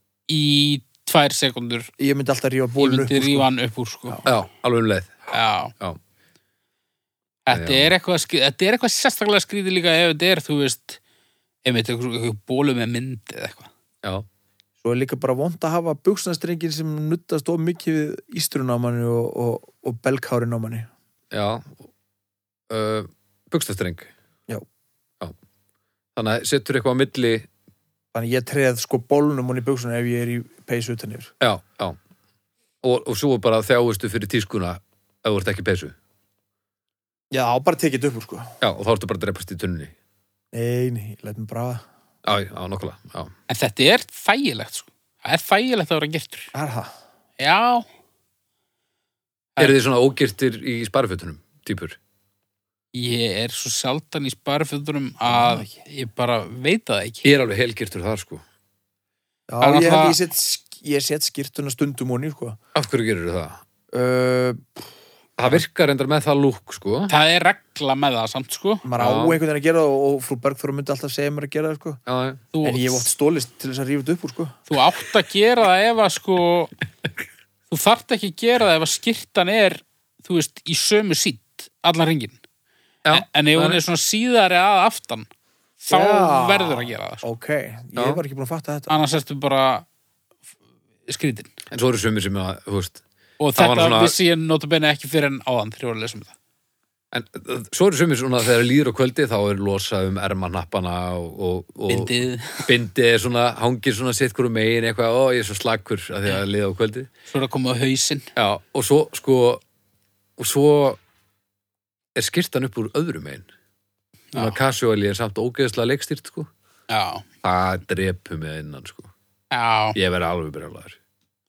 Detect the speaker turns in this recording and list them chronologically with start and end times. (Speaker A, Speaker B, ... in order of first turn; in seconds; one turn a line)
Speaker A: 0.3-1.9
Speaker B: 2.0-3.5
Speaker A: 2.8-4.2
Speaker C: 4.2-5.2
Speaker A: 5.3-5.7
Speaker A: 7.5-11.0
Speaker C: 7.5-7.9
Speaker A: 11.6-13.7
Speaker B: 14.8-20.9
Speaker C: 21.3-21.8
Speaker C: 22.7-24.1
Speaker C: 26.1-27.5
Speaker B: 28.1-31.3
Speaker C: 31.4-32.0
Speaker C: 32.8-35.9
Speaker B: 37.3-38.5
Speaker C: 38.6-39.9
Speaker B: 40.5-41.8
Speaker C: 42.2-43.3
Speaker A: 43.5-46.5
Speaker B: 46.5-46.9
Speaker A: 47.4-47.9
Speaker C: 49.6-52.0
Speaker A: 52.9-57.3
Speaker B: 55.2-55.8
Speaker C: 57.2-58.4
Speaker B: 59.5-62.6
Speaker A: 59.6-60.2
Speaker C: 62.7-63.6
Speaker B: 63.9-64.8
Speaker C: 65.4-67.1
Speaker A: 67.1-68.8
Speaker B: 68.8-72.0
Speaker C: 69.0-69.4
Speaker C: 72.1-72.4
Speaker A: 72.5-73.1
Speaker B: 72.6-74.6
Speaker A: 74.7-76.7
Speaker A: 77.7-82.4
Speaker C: 83.0-83.8
Speaker A: 83.1-85.3
Speaker A: 85.8-87.2
Speaker B: 85.9-88.9
Speaker C: 88.0-88.2
Speaker A: 88.9-89.8
Speaker A: 91.1-91.5
Speaker C: 91.7-93.0
Speaker A: 93.4-96.3
Speaker C: 93.5-94.2
Speaker C: 97.1-107.1
Speaker A: 101.9-102.7
Speaker A: 107.3-108.3
Speaker C: 108.3-109.6
Speaker C: 110.4-111.0
Speaker C: 112.2-113.5
Speaker A: 114.3-114.6
Speaker C: 114.3-116.5
Speaker A: 116.9-117.2
Speaker C: 117.4-119.1
Speaker A: 119.5-120.0
Speaker C: 119.9-121.0